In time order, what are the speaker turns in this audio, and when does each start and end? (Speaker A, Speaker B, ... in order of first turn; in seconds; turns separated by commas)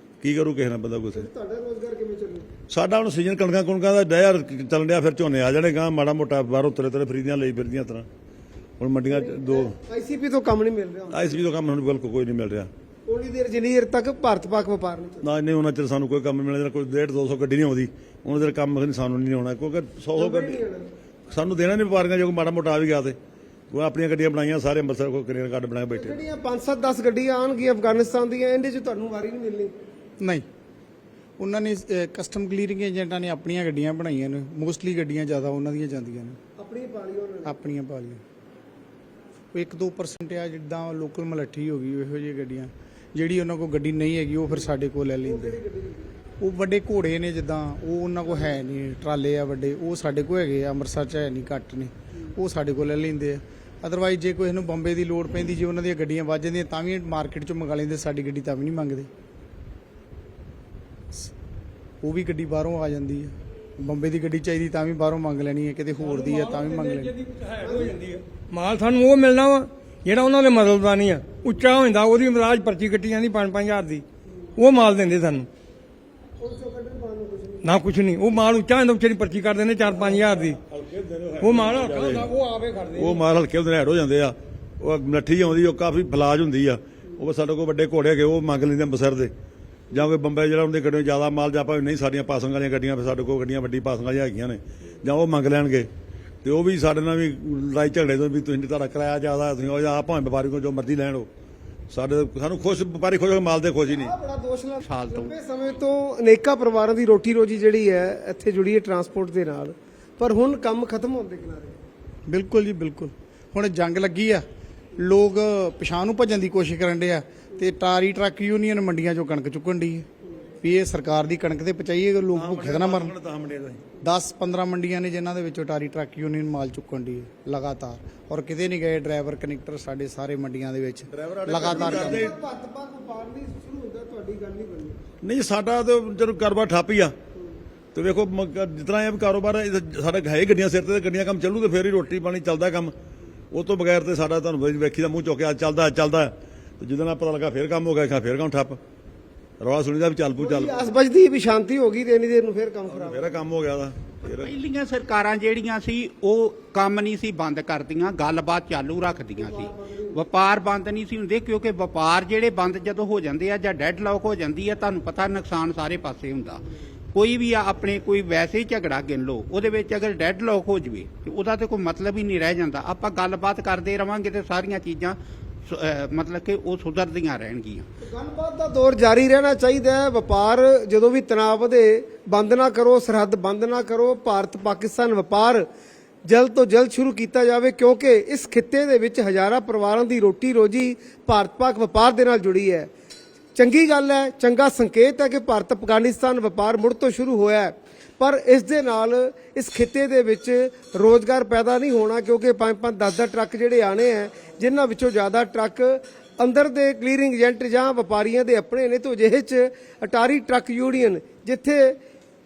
Speaker A: 0.2-1.3, Speaker B: 1.1-2.5, Speaker A: 2.7-8.1, Speaker A: 8.8-9.7, Speaker B: 9.1-11.4, Speaker A: 11.1-12.7, Speaker B: 13.1-15.2, Speaker A: 15.2-20.6, Speaker B: 20.2-20.9, Speaker A: 21.3-23.2, Speaker A: 23.7-26.2, Speaker B: 25.9-29.7, Speaker C: 30.2-30.5, Speaker C: 31.4-36.4, Speaker B: 36.6-37.6, Speaker C: 37.4-38.2, Speaker C: 39.5-45.6, Speaker B: 45.2-46.1, Speaker C: 46.4-59.1, Speaker C: 62.0-67.1, Speaker D: 66.1-74.0, Speaker B: 67.6-68.0, Speaker D: 74.6-75.5, Speaker B: 76.4-77.8, Speaker D: 77.6-80.6, Speaker A: 80.7-82.3, Speaker D: 81.4-83.2, Speaker A: 83.0-89.3, Speaker A: 89.9-95.9, Speaker A: 96.4-101.3, Speaker A: 101.9-104.1, Speaker B: 103.8-111.8, Speaker E: 104.8-105.3, Speaker C: 112.3-114.5, Speaker C: 115.0-120.1, Speaker C: 120.6-123.1, Speaker A: 122.3-123.8, Speaker C: 124.0-132.3, Speaker A: 131.1-132.4, Speaker B: 131.6-135.0, Speaker A: 135.2-137.1, Speaker A: 137.9-142.9, Speaker A: 143.5-148.8, Speaker A: 149.6-150.8, Speaker B: 150.4-153.4, Speaker A: 152.9-154.5, Speaker E: 154.2-177.9, Speaker B: 159.4-160.2, Speaker B: 178.0-185.7, Speaker B: 186.3-192.9, Speaker B: 193.6-212.0